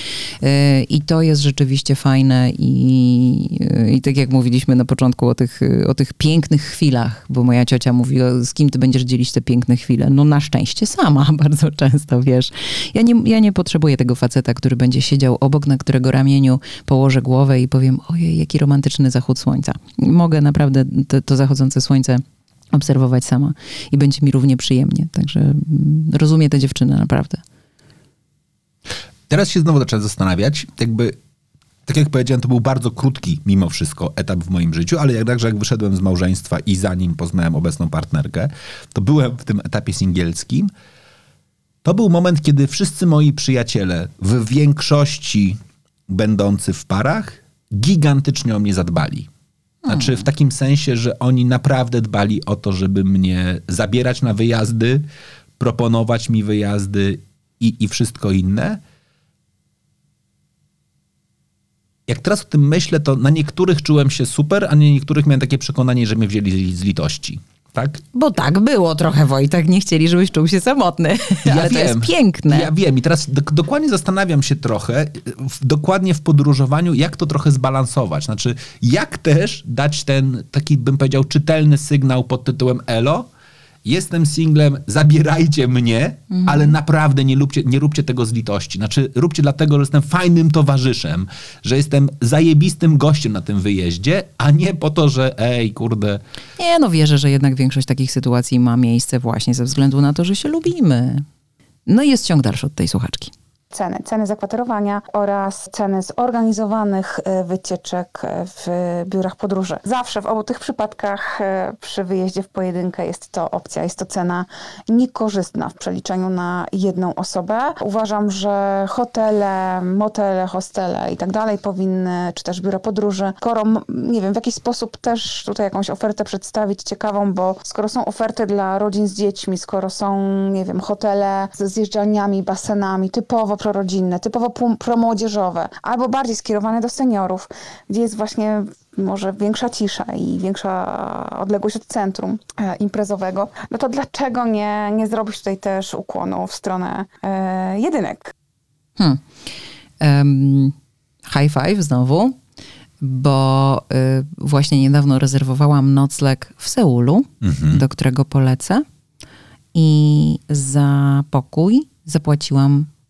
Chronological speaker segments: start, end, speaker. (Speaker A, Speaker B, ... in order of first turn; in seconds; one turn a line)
Speaker A: 0.4-27.4
Speaker B: 29.3-31.2
Speaker B: 31.9-40.7
Speaker B: 41.8-49.3
Speaker A: 49.9-50.3
Speaker B: 49.9-55.0
Speaker B: 55.6-58.8
Speaker B: 62.1-68.0
Speaker A: 68.1-72.7
Speaker B: 71.4-83.3
Speaker B: 83.8-96.2
Speaker A: 86.3-86.7
Speaker A: 96.6-101.2
Speaker A: 101.9-103.3
Speaker C: 103.7-148.3
Speaker A: 149.0-149.2
Speaker A: 150.0-150.7
Speaker A: 151.3-152.3
Speaker A: 153.0-158.8
Speaker B: 157.4-157.8
Speaker A: 159.7-162.9